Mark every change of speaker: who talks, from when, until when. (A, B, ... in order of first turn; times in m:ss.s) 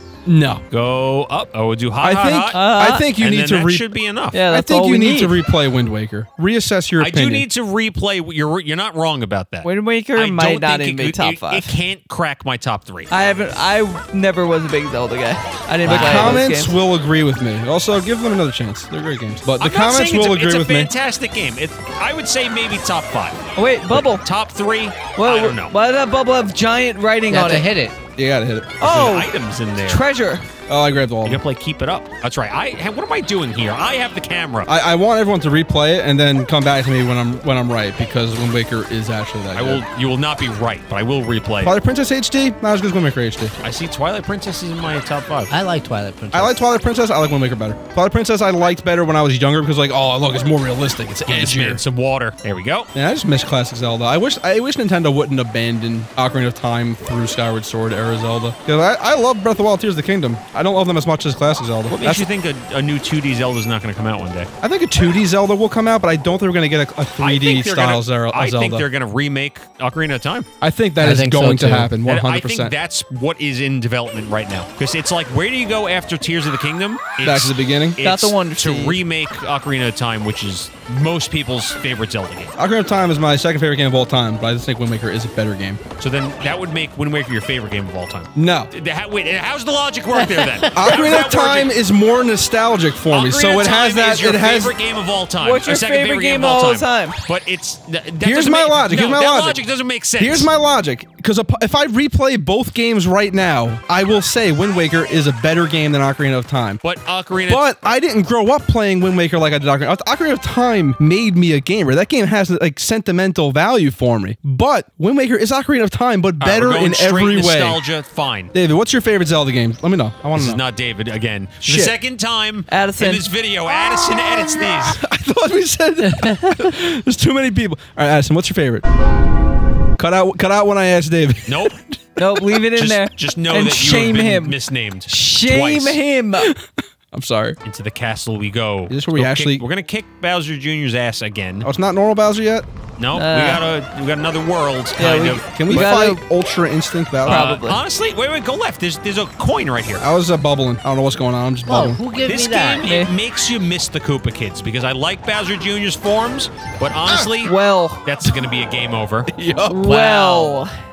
0:00.2-0:00.6 A
0:00.7-0:02.6 B
0:02.0-0:03.9 A
0:02.5-0:03.1 C
0:03.2-0:04.4 B
0:04.3-0:05.4 C
0:04.4-0:07.4 A
0:07.0-0:13.1 B
0:09.6-0:11.7 C
0:13.1-0:16.8 C
0:15.8-0:16.4 D
0:15.9-0:20.9 A
0:19.6-0:25.7 B
0:23.6-0:24.2 C
0:25.2-0:27.7 C
0:27.3-0:28.0 D
0:28.2-0:28.8 A
0:28.8-0:29.3 C
0:28.8-0:30.0 B
0:29.8-0:30.4 C
0:30.7-0:31.4 A
0:31.2-0:34.7 B
0:34.6-0:39.8 A
0:39.5-0:41.8 B
0:41.6-0:43.5 A
0:43.6-0:45.5 B
0:45.5-0:46.6 D
0:46.3-0:51.8 A
0:51.3-0:52.9 B
0:52.9-1:02.3 A
1:01.9-1:04.5 B
1:04.6-1:08.9 A
1:07.2-1:10.4 B
1:10.6-1:12.7 A
1:11.0-1:11.9 D
1:12.0-1:22.5 B
1:17.2-1:18.0 A
1:18.0-1:19.0 C
1:22.6-1:25.8 A
1:26.0-1:31.7 B
1:28.4-1:28.7 A
1:30.2-1:30.7 D
1:30.7-1:34.7 A
1:33.1-1:40.5 B
1:35.4-1:37.2 C
1:38.2-1:39.6 A
1:40.2-1:46.8 A
1:46.8-1:47.7 B
1:47.5-1:57.8 A
1:56.4-1:58.5 B
1:58.5-2:00.6 A
2:00.4-2:05.0 B
2:01.6-2:01.9 A
2:02.7-2:03.2 C
2:04.8-2:08.8 A
2:10.0-2:12.2 A
2:11.5-2:11.7 B
2:12.2-2:16.5 C
2:12.8-2:16.0 B
2:16.4-2:17.6 A
2:17.6-2:21.7 B
2:18.9-2:19.6 A
2:21.6-2:22.7 A
2:23.0-2:25.9 B
2:23.1-2:23.6 C
2:25.0-2:26.2 C
2:25.5-2:27.5 A
2:27.2-2:27.8 C
2:27.2-2:30.0 B
2:30.0-2:32.0 A
2:31.6-2:32.9 D
2:32.2-2:39.3 B
2:32.8-2:33.1 C
2:37.0-2:37.3 A
2:37.4-2:38.0 C
2:39.3-2:39.9 A
2:39.7-2:40.7 C
2:39.8-2:40.6 D